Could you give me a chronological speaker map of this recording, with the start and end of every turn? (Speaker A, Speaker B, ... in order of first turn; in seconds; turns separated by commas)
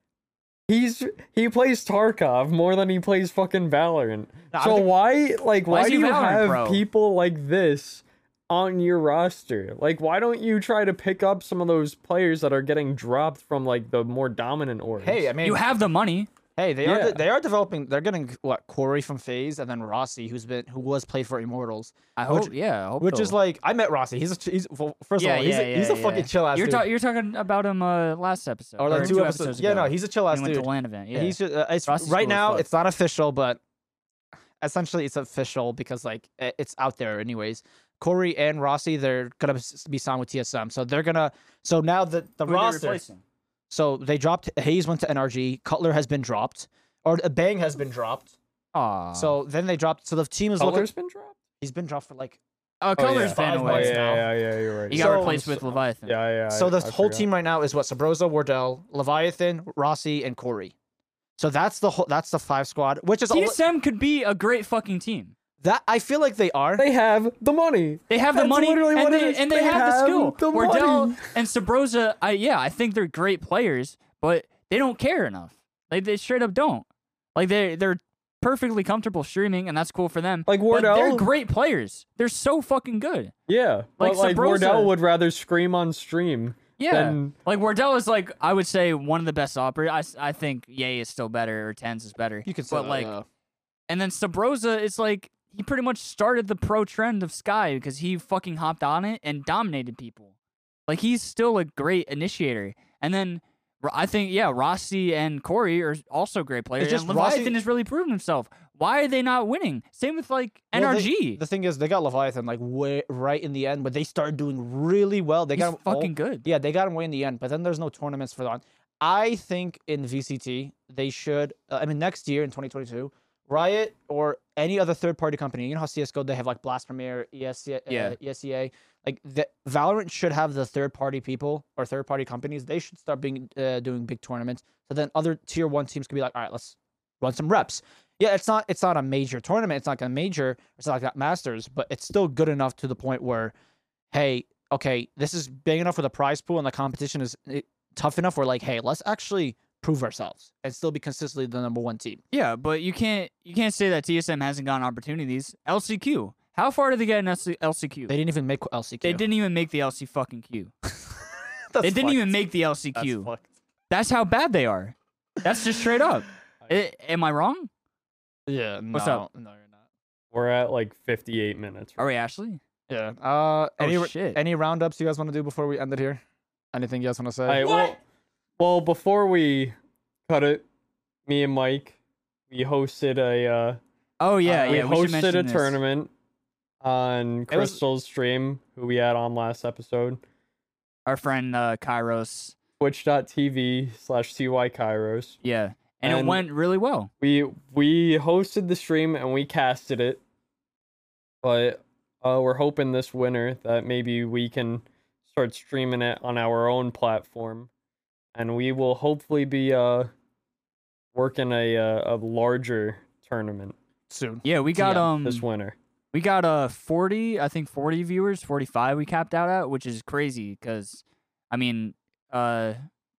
Speaker A: 0.7-15.3, Speaker B: 4.5-4.9, Speaker C: 5.7-6.8, Speaker B: 15.0-15.7, Speaker C: 15.4-16.3, Speaker B: 16.6-26.9, Speaker A: 16.8-17.2, Speaker C: 22.2-23.3, Speaker C: 25.2-32.7, Speaker B: 28.8-33.6, Speaker A: 28.9-29.2, Speaker B: 34.6-43.0, Speaker C: 42.5-43.2, Speaker B: 43.7-48.3, Speaker C: 48.7-49.4, Speaker B: 49.1-50.9, Speaker A: 50.6-51.4, Speaker B: 51.6-52.4, Speaker C: 52.8-54.0, Speaker A: 53.0-57.3, Speaker B: 53.1-54.3, Speaker C: 54.9-56.1, Speaker B: 54.9-55.3, Speaker B: 56.5-60.7, Speaker B: 61.4-63.6, Speaker C: 63.3-65.3, Speaker B: 65.6-66.8, Speaker A: 66.8-71.3, Speaker C: 68.1-76.8, Speaker C: 77.3-83.3, Speaker A: 80.5-81.3, Speaker A: 83.5-87.3, Speaker C: 84.0-84.9, Speaker C: 86.8-93.1, Speaker B: 92.5-93.2, Speaker C: 93.9-100.3, Speaker C: 100.9-111.4, Speaker B: 106.8-107.5, Speaker B: 110.7-143.5, Speaker C: 115.5-116.5, Speaker C: 127.9-128.2, Speaker B: 144.1-152.2, Speaker C: 152.3-158.1, Speaker B: 158.1-159.2, Speaker C: 159.0-160.7, Speaker B: 161.7-162.4, Speaker C: 161.8-163.3, Speaker A: 163.0-163.4, Speaker C: 163.9-167.7, Speaker B: 168.5-169.7, Speaker C: 168.9-169.2, Speaker A: 170.3-172.0, Speaker C: 172.0-172.6, Speaker B: 172.9-176.2, Speaker C: 173.8-174.4, Speaker B: 176.7-177.6, Speaker A: 177.5-178.0, Speaker C: 177.6-177.9, Speaker A: 178.6-179.8, Speaker A: 180.3-180.6, Speaker A: 181.3-182.0, Speaker A: 182.5-183.8, Speaker C: 184.2-185.8, Speaker B: 184.4-184.8, Speaker A: 184.6-186.1, Speaker A: 186.8-190.2, Speaker B: 187.5-187.8, Speaker C: 191.1-192.6, Speaker A: 192.8-195.4, Speaker C: 195.4-197.1, Speaker A: 196.0-196.4, Speaker A: 197.2-200.2, Speaker A: 201.4-207.7, Speaker A: 208.3-210.1, Speaker A: 211.1-213.7, Speaker B: 214.1-215.1, Speaker C: 214.4-215.4, Speaker A: 214.9-215.8, Speaker C: 216.1-222.8